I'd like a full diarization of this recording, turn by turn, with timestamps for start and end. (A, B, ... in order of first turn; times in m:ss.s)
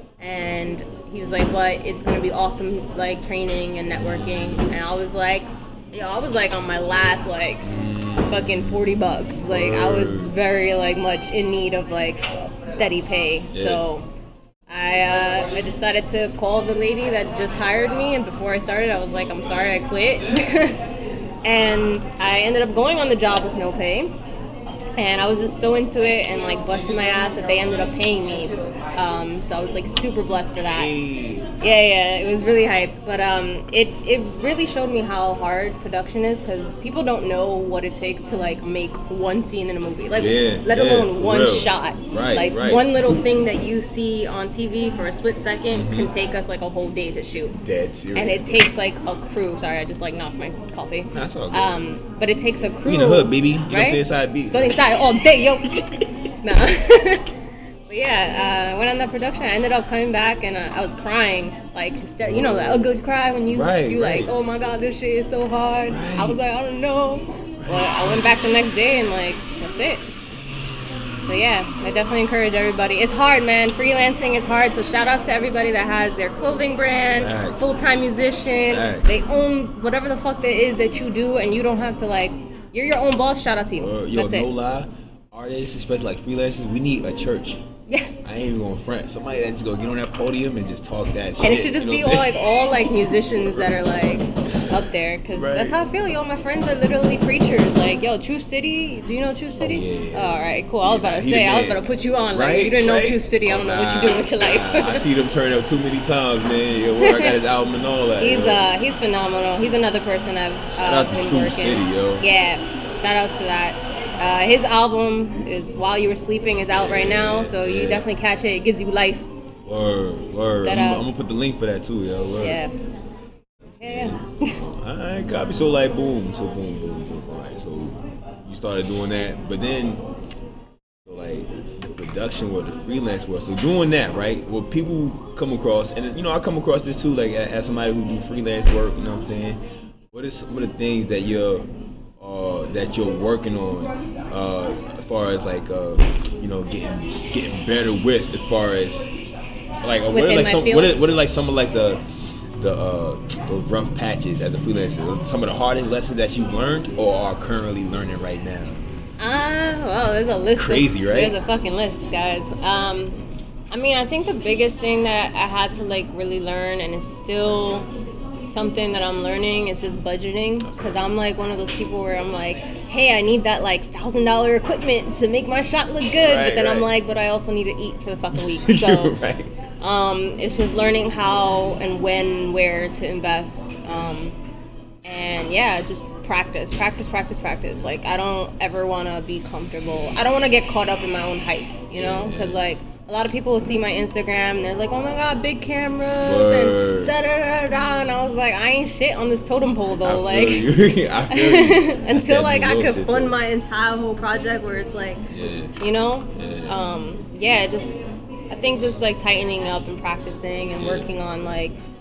0:00.2-0:07.7 A
0:03.9-0:04.7 B
0:07.6-0:10.3 B
0:08.3-0:14.0 A
0:13.5-0:13.8 B
0:14.7-0:20.9 A
0:21.4-0:24.1 A
0:25.0-0:30.9 A
0:30.7-0:31.5 B
0:31.6-0:47.6 A
0:40.2-0:42.9 B
0:45.7-0:46.1 B
0:47.6-0:48.7 B
0:48.2-0:57.4 A
0:51.1-0:51.7 B
0:52.9-0:56.1 B
0:57.9-1:10.1 A
1:02.2-1:02.8 B
1:03.5-1:04.3 B
1:05.9-1:06.4 B
1:07.6-1:08.2 B
1:10.3-1:11.4 B
1:11.2-1:24.5 A
1:17.2-1:17.7 B
1:18.7-1:19.1 B
1:23.8-1:27.6 B
1:27.9-1:28.2 A
1:28.2-1:33.8 B
1:31.4-1:45.1 A
1:35.4-1:35.8 B
1:39.6-1:48.6 B
1:47.0-1:47.4 A
1:48.2-1:59.3 A
1:50.8-1:52.2 B
1:56.6-1:58.1 B
1:59.7-2:02.6 B
2:00.6-2:01.1 A
2:02.4-2:02.7 A
2:03.6-2:10.0 B
2:03.8-2:04.6 A
2:11.1-2:19.6 B
2:20.1-2:21.7 B
2:22.2-2:29.1 B
2:29.8-2:32.0 B
2:30.1-2:31.0 A
2:32.6-2:38.8 B
2:39.2-2:43.2 A
2:40.6-2:41.4 B
2:43.7-2:47.9 A
2:48.5-2:59.2 A
2:50.6-2:51.1 B
2:56.2-2:56.9 B
2:58.4-2:59.6 B
2:59.8-3:04.4 A
3:05.0-3:20.7 A
3:12.0-3:12.6 B
3:16.2-3:17.2 B
3:20.0-3:23.4 B
3:21.3-3:25.2 A
3:25.3-3:25.7 B
3:25.8-3:31.8 A
3:26.4-3:26.8 B
3:30.8-3:31.1 B